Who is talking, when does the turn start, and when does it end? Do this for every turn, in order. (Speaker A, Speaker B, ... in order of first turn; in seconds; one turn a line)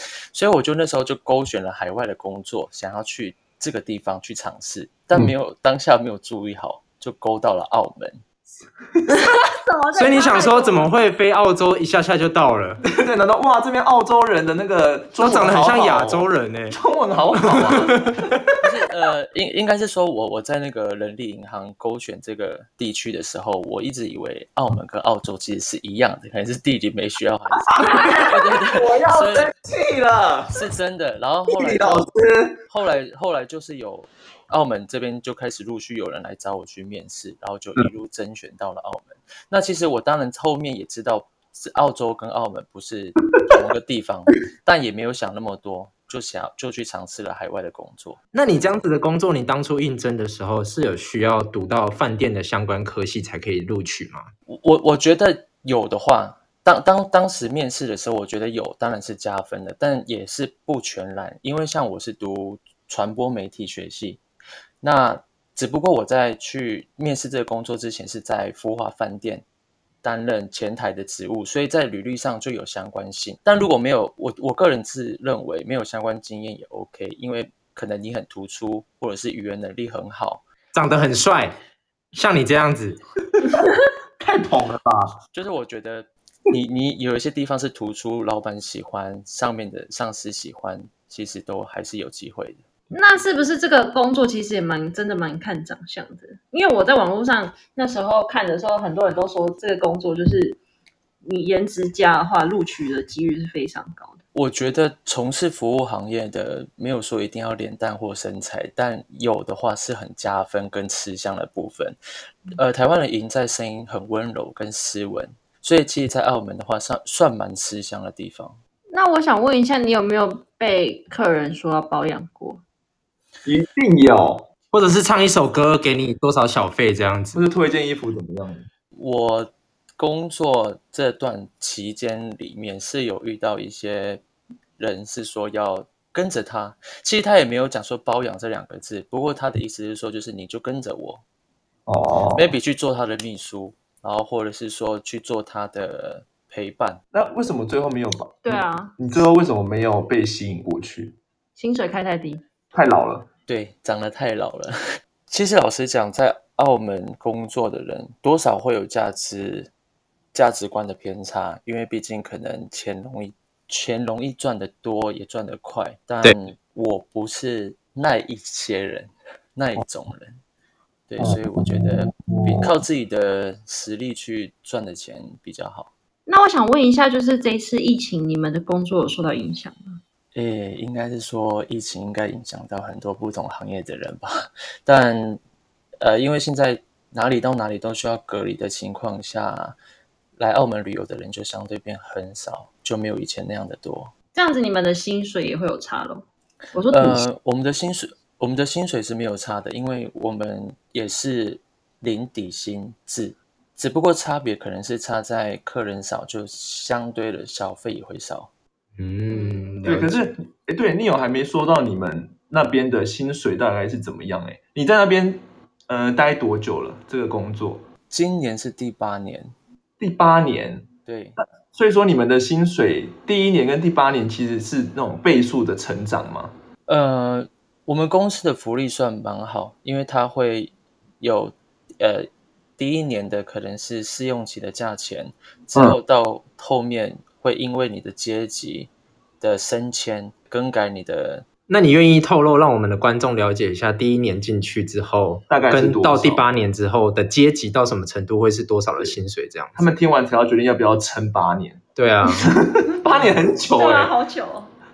Speaker A: 0.3-8.2
Speaker B: 9.1-10.9
Speaker C: 10.0-12.8
Speaker D: 12.8-18.3
Speaker C: 15.2-16.8
Speaker C: 17.3-18.4
Speaker A: 18.6-29.5
Speaker D: 27.5-30.6
Speaker A: 30.5-32.1
Speaker D: 31.5-32.6
Speaker A: 32.7-48.2
Speaker C: 48.3-54.3
Speaker A: 54.5-64.2
Speaker A: 64.8-69.5
Speaker A: 70.0-80.4
Speaker C: 80.7-81.6
Speaker C: 82.1-83.0
Speaker D: 84.2-85.2
Speaker A: 85.3-92.6
Speaker B: 92.9-100.6
Speaker B: 101.2-104.2
Speaker A: 104.3-112.0
Speaker A: 112.5-118.6
Speaker B: 118.9-122.6
Speaker D: 123.5-124.5
Speaker C: 124.7-127.4
Speaker D: 127.3-128.7
Speaker A: 128.9-134.2
Speaker A: 134.8-141.2
Speaker D: 141.9-142.6
Speaker A: 142.3-147.0
Speaker D: 147.1-151.2
Speaker B: 148.4-148.9
Speaker B: 151.6-152.4
Speaker D: 152.7-153.3
Speaker A: 153.5-154.8
Speaker A: 155.3-159.7
Speaker A: 160.3-170.4
Speaker A: 171.1-175.9
Speaker D: 171.2-172.7
Speaker B: 176.3-180.0
Speaker A: 180.3-185.4
Speaker A: 186.0-189.8
Speaker A: 190.4-194.1
Speaker B: 194.3-197.2
Speaker A: 196.9-208.5
Speaker C: 209.0-210.3
Speaker B: 209.3-209.8
Speaker D: 209.8-217.9
Speaker A: 218.1-219.6
Speaker D: 220.0-220.9
Speaker A: 221.1-221.4
Speaker D: 221.4-226.6
Speaker A: 226.9-238.9
Speaker A: 239.4-241.4
Speaker C: 241.7-249.9
Speaker D: 245.5-246.5
Speaker D: 249.8-251.8
Speaker C: 252.0-252.5
Speaker D: 252.5-254.1
Speaker B: 253.7-254.7